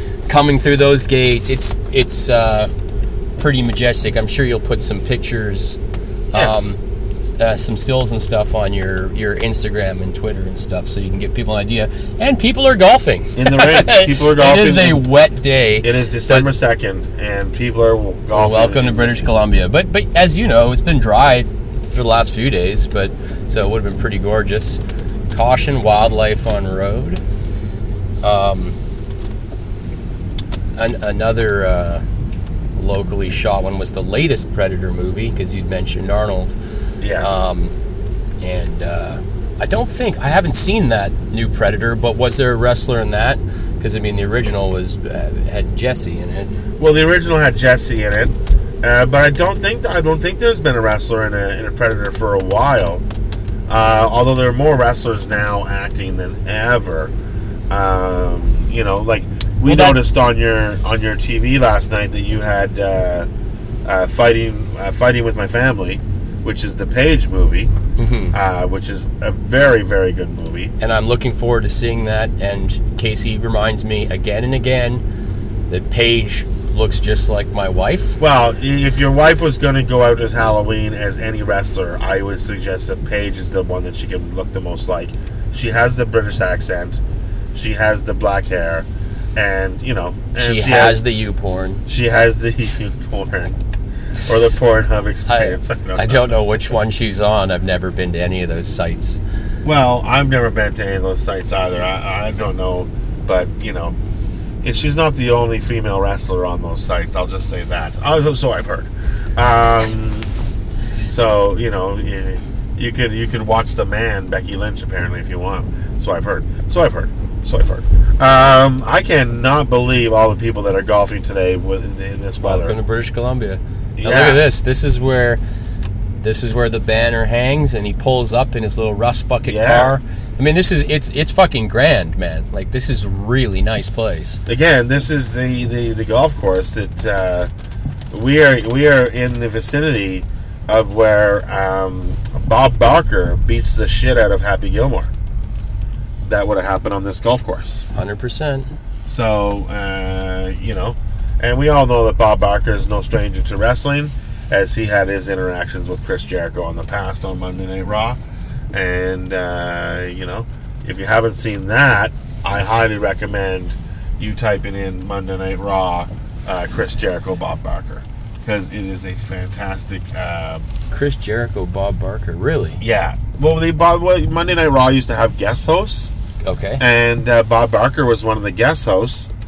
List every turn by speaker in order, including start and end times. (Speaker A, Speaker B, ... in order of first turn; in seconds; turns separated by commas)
Speaker A: 0.3-2.7, Speaker A: 3.4-5.8, Speaker A: 6.3-6.8, Speaker B: 6.3-6.7, Speaker A: 7.4-16.5, Speaker B: 13.4-15.0, Speaker B: 15.8-19.3, Speaker A: 18.3-27.2, Speaker A: 28.2-28.8, Speaker A: 30.8-32.0, Speaker A: 32.7-36.5, Speaker B: 37.0-37.4, Speaker A: 37.2-37.7, Speaker A: 38.4-46.5, Speaker B: 46.8-53.0, Speaker B: 53.7-57.1, Speaker B: 57.7-63.3, Speaker A: 59.6-60.0, Speaker B: 63.9-67.7, Speaker A: 68.0-68.4, Speaker B: 68.3-70.7, Speaker A: 70.8-75.0, Speaker A: 75.7-78.2, Speaker B: 78.2-87.0, Speaker B: 87.5-91.0, Speaker A: 90.4-91.9, Speaker B: 91.9-93.6, Speaker B: 94.2-96.4, Speaker A: 95.3-99.2, Speaker B: 99.6-104.0, Speaker B: 104.6-110.3, Speaker B: 111.0-122.7, Speaker A: 122.4-125.4, Speaker B: 124.0-124.4, Speaker A: 126.2-134.4, Speaker B: 129.5-130.0, Speaker B: 134.4-137.5, Speaker B: 138.1-145.1, Speaker B: 146.2-147.9, Speaker A: 147.9-148.7, Speaker B: 149.1-158.2, Speaker B: 158.7-170.7, Speaker A: 170.9-172.8, Speaker B: 172.8-176.1, Speaker A: 176.4-176.8, Speaker B: 176.8-179.3